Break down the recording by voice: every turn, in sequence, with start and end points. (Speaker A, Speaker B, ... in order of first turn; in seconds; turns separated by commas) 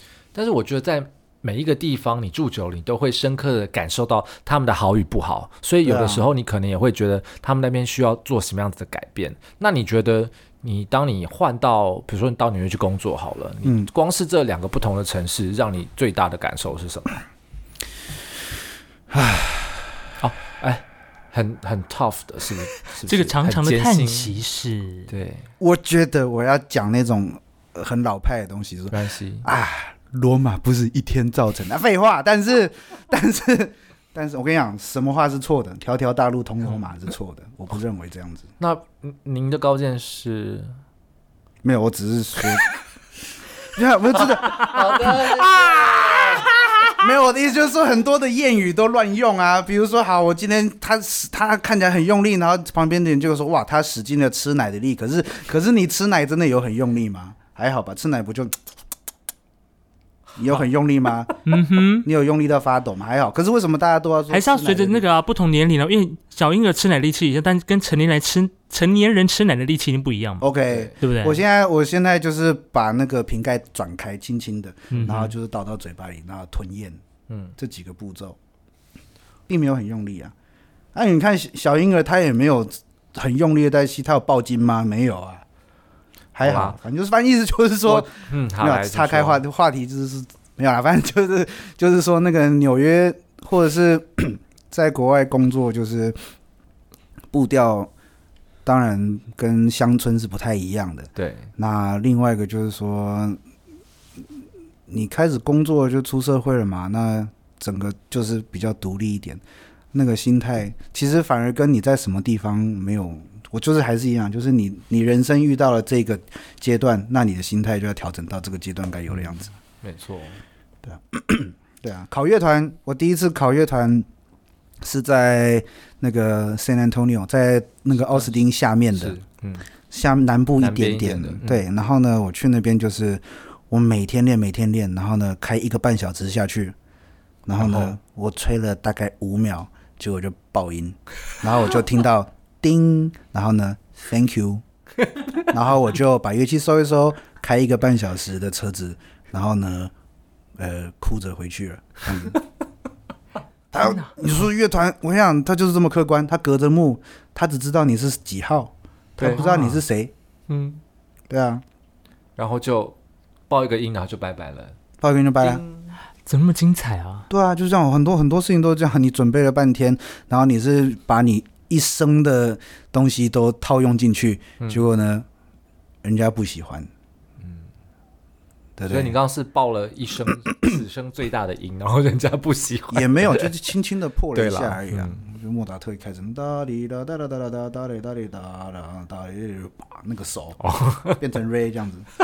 Speaker A: 0.3-17.2, Speaker B: 5.8-6.3, Speaker B: 19.1-20.0, Speaker A: 20.2-24.4, Speaker C: 23.1-25.1, Speaker A: 25.1-25.5, Speaker B: 25.6-38.5, Speaker A: 28.9-29.4, Speaker A: 38.6-40.7, Speaker B: 41.6-42.7, Speaker B: 43.6-58.5, Speaker A: 44.2-47.0, Speaker B: 60.4-61.3, Speaker C: 61.4-62.1, Speaker B: 62.0-65.0, Speaker C: 64.3-70.5, Speaker B: 70.4-77.0, Speaker A: 70.7-70.9, Speaker C: 71.0-71.4, Speaker C: 74.9-75.2, Speaker A: 75.0-75.3, Speaker A: 77.3-77.5, Speaker B: 77.6-78.4, Speaker B: 79.5-80.3, Speaker B: 80.9-85.4, Speaker B: 86.3-96.3, Speaker A: 86.4-86.8, Speaker A: 87.8-89.4, Speaker B: 97.3-97.9, Speaker B: 98.6-103.4, Speaker A: 101.2-101.5, Speaker B: 104.9-109.4, Speaker B: 109.9-119.5, Speaker A: 119.1-120.4, Speaker B: 120.8-124.1, Speaker B: 124.8-129.2, Speaker A: 128.9-129.7, Speaker B: 129.9-136.8, Speaker A: 130.6-131.6, Speaker B: 137.4-144.6, Speaker A: 137.6-137.9, Speaker B: 145.5-149.9, Speaker B: 150.6-152.4, Speaker B: 153.7-160.1, Speaker C: 153.8-154.2, Speaker A: 159.2-159.4, Speaker C: 159.3-159.8, Speaker A: 160.5-160.8, Speaker B: 161.3-161.6, Speaker A: 162.4-162.9, Speaker A: 163.5-164.8, Speaker B: 165.0-165.6, Speaker A: 165.4-165.9, Speaker C: 166.2-167.3, Speaker B: 167.3-175.3, Speaker A: 174.6-174.8, Speaker B: 176.0-176.9, Speaker A: 177.4-177.7, Speaker B: 178.8-179.2, Speaker A: 178.9-183.5, Speaker B: 182.9-192.1, Speaker A: 184.3-185.2, Speaker A: 190.6-191.2